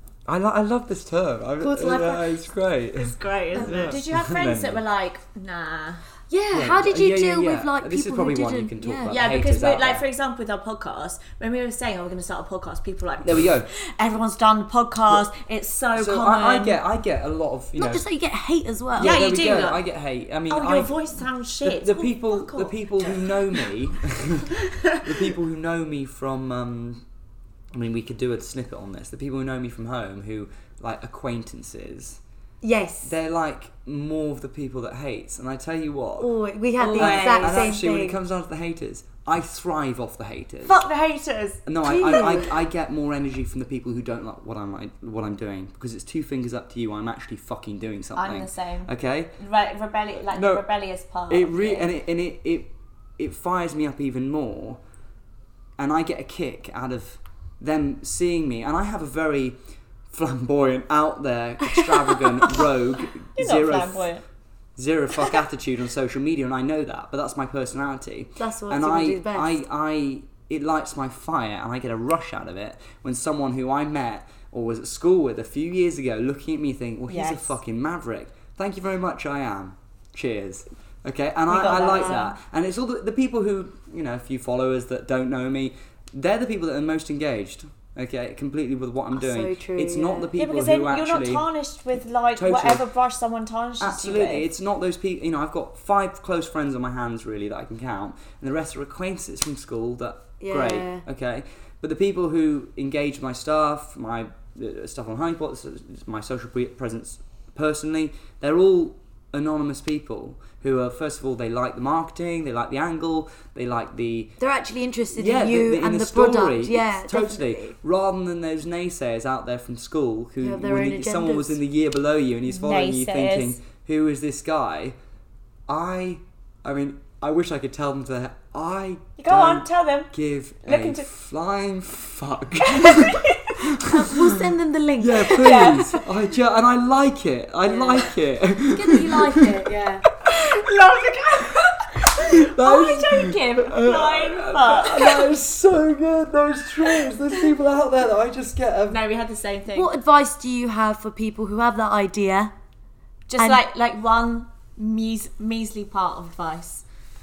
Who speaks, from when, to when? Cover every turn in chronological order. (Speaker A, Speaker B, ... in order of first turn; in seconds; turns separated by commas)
Speaker A: 0.3-4.8, Speaker B: 1.6-2.4, Speaker C: 3.0-6.0, Speaker B: 3.5-4.0, Speaker B: 6.3-9.2, Speaker A: 6.5-10.0, Speaker C: 9.1-16.8, Speaker A: 13.2-13.7, Speaker A: 15.9-18.1, Speaker B: 17.8-19.2, Speaker C: 19.0-19.8, Speaker A: 19.0-21.0, Speaker C: 20.5-22.1, Speaker A: 21.6-27.0, Speaker B: 22.1-23.1, Speaker C: 24.6-25.1, Speaker A: 27.7-32.2, Speaker B: 32.6-33.1, Speaker A: 33.0-36.3, Speaker B: 36.2-38.2, Speaker C: 36.8-37.8, Speaker A: 36.9-40.8, Speaker C: 40.6-42.2, Speaker A: 41.6-49.3, Speaker B: 41.8-42.5, Speaker C: 48.1-51.9, Speaker A: 50.2-50.6, Speaker A: 51.3-54.8, Speaker A: 55.8-59.6, Speaker A: 60.1-64.1, Speaker B: 61.8-62.2, Speaker C: 63.4-64.2, Speaker A: 64.8-91.4, Speaker B: 68.4-69.6, Speaker C: 77.1-77.5, Speaker C: 81.5-82.3, Speaker B: 81.7-82.3, Speaker B: 89.1-90.3, Speaker C: 90.3-94.5, Speaker A: 92.3-92.8, Speaker A: 93.8-114.3, Speaker B: 100.4-101.0, Speaker B: 114.4-117.7, Speaker A: 115.1-125.0, Speaker B: 120.4-121.6, Speaker C: 122.5-123.6, Speaker A: 125.7-134.2, Speaker C: 129.2-130.1, Speaker C: 130.6-131.1, Speaker C: 132.6-133.8, Speaker B: 133.9-135.8, Speaker A: 135.0-139.6, Speaker C: 135.3-136.0, Speaker C: 137.7-138.1, Speaker B: 138.7-140.0, Speaker C: 140.2-145.3, Speaker A: 142.1-149.0, Speaker C: 148.9-149.9, Speaker B: 149.7-152.5, Speaker C: 153.3-156.8